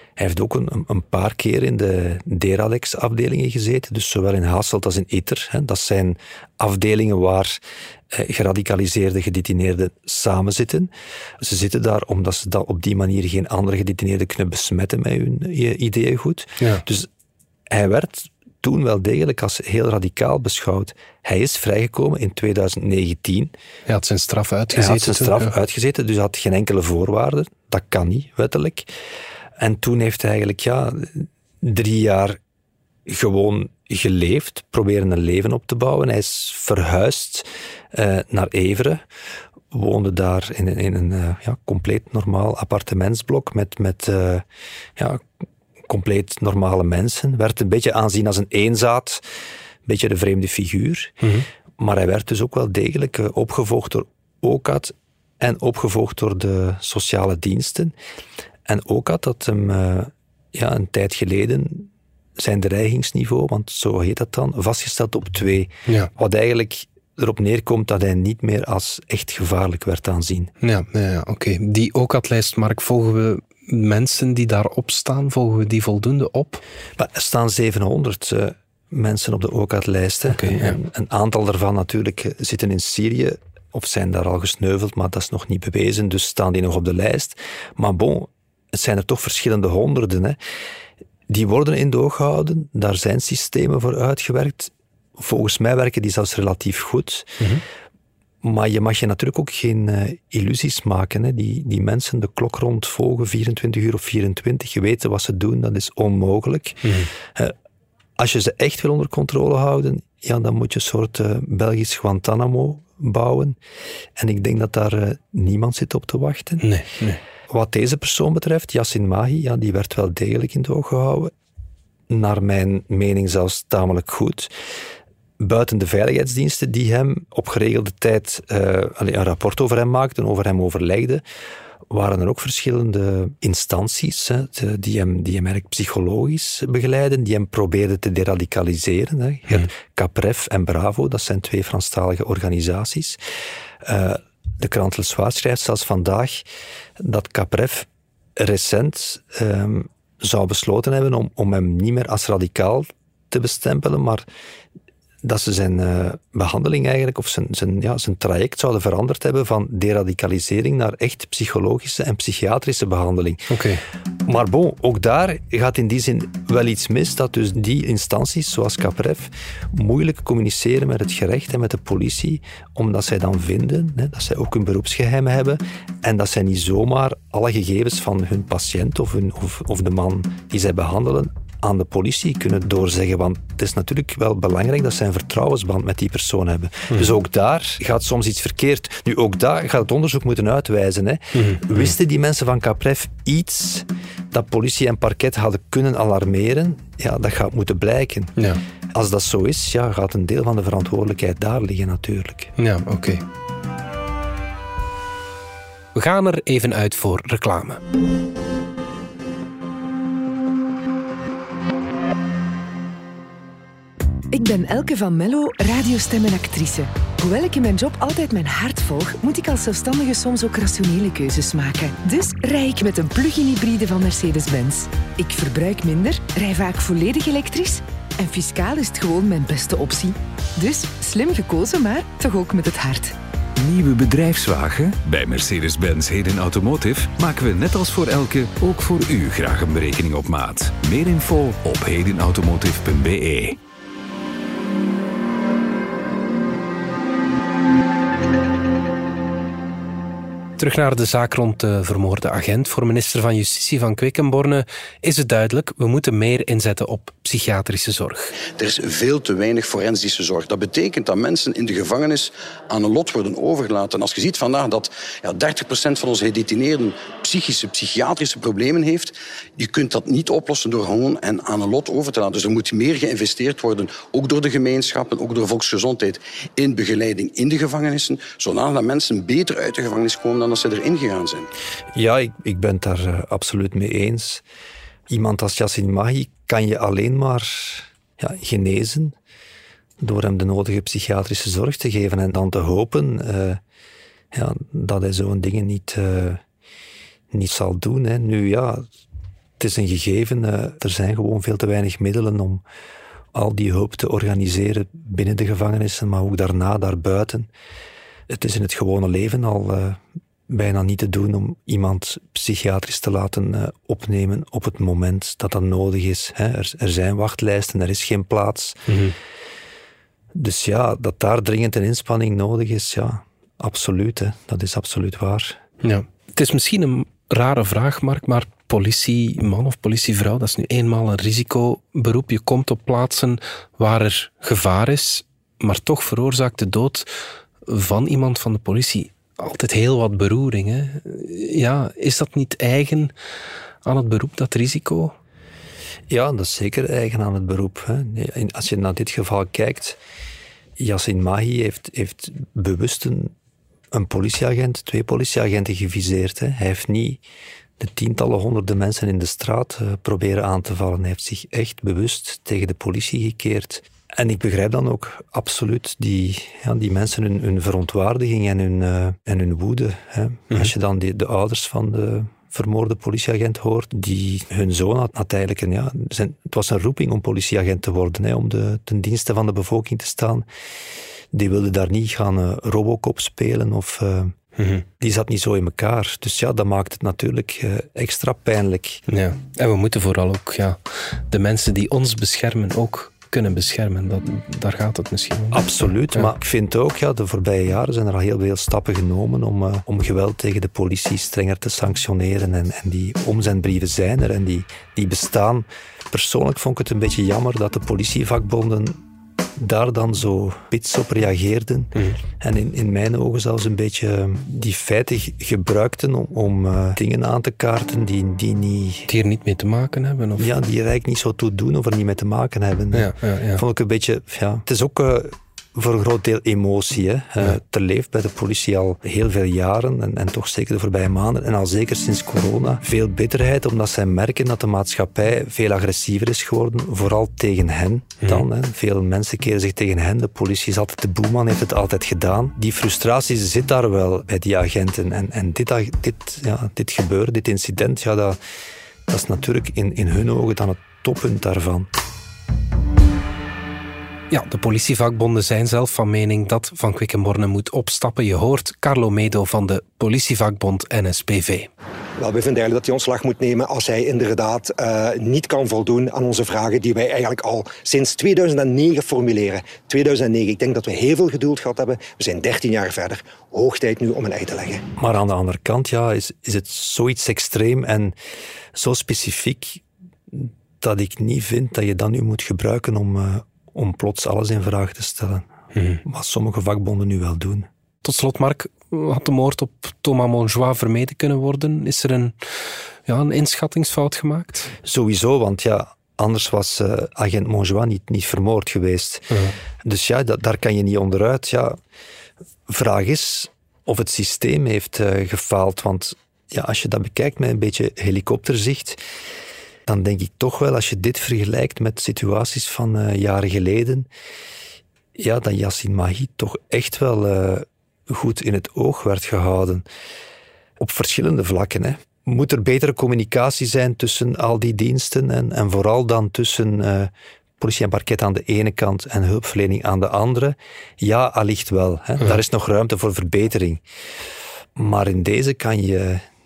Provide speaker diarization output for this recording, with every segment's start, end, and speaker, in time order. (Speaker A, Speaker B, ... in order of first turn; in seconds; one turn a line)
Speaker A: 0.2-17.1
Speaker B: 16.6-16.8
Speaker A: 17.7-23.5
Speaker B: 23.9-25.5
Speaker A: 24.7-28.9
Speaker A: 29.6-32.4
Speaker A: 33.0-39.0
Speaker A: 39.7-44.4
Speaker A: 45.0-45.3
Speaker A: 45.8-49.2
Speaker A: 49.9-51.1
Speaker A: 51.8-57.9
Speaker A: 58.7-70.5
Speaker B: 70.6-76.6
Speaker A: 77.0-90.4
Speaker B: 80.3-80.7
Speaker A: 91.3-97.4
Speaker A: 98.4-107.5
Speaker B: 106.8-107.1
Speaker A: 108.2-113.6
Speaker A: 114.2-116.7
Speaker B: 116.6-117.2
Speaker A: 117.5-121.3
Speaker A: 122.1-124.5
Speaker A: 125.4-131.2
Speaker A: 131.9-143.2
Speaker A: 143.8-146.4
Speaker A: 147.0-154.2
Speaker A: 155.2-163.5
Speaker B: 163.5-163.8
Speaker A: 164.2-198.3
Speaker B: 191.3-191.9
Speaker A: 198.9-202.5
Speaker B: 202.6-203.2
Speaker B: 205.9-207.8
Speaker C: 214.3-233.1
Speaker D: 233.6-243.6
Speaker B: 250.6-258.3
Speaker E: 258.6-281.5
Speaker A: 281.9-284.4
Speaker A: 285.1-289.1
Speaker A: 290.0-293.6
Speaker A: 294.3-296.4
Speaker A: 297.3-298.9
Speaker A: 299.6-302.6
Speaker A: 303.3-307.5
Speaker A: 308.3-318.8
Speaker B: 318.9-319.1
Speaker A: 320.3-325.6
Speaker B: 325.8-337.1
Speaker B: 337.6-343.1
Speaker B: 343.8-345.1
Speaker A: 346.1-350.0
Speaker A: 350.8-353.3
Speaker A: 353.9-357.2
Speaker A: 357.8-380.5
Speaker A: 381.3-384.3
Speaker B: 384.6-384.8
Speaker A: 385.0-389.0
Speaker B: 389.1-396.3
Speaker A: 395.5-409.0
Speaker A: 409.6-419.1
Speaker B: 419.1-420.5
Speaker A: 420.4-448.4
Speaker B: 422.9-423.6
Speaker A: 449.1-451.9
Speaker B: 454.3-461.7
Speaker F: 462.2-474.8
Speaker A: 475.0-478.1
Speaker A: 478.7-485.5
Speaker B: 485.7-486.0
Speaker A: 486.0-487.7
Speaker B: 488.0-492.3
Speaker B: 493.1-494.7
Speaker A: 494.8-499.3
Speaker A: 499.8-501.8
Speaker A: 502.7-509.0
Speaker A: 509.9-514.1
Speaker A: 515.1-519.9
Speaker A: 520.8-533.8
Speaker A: 534.8-536.2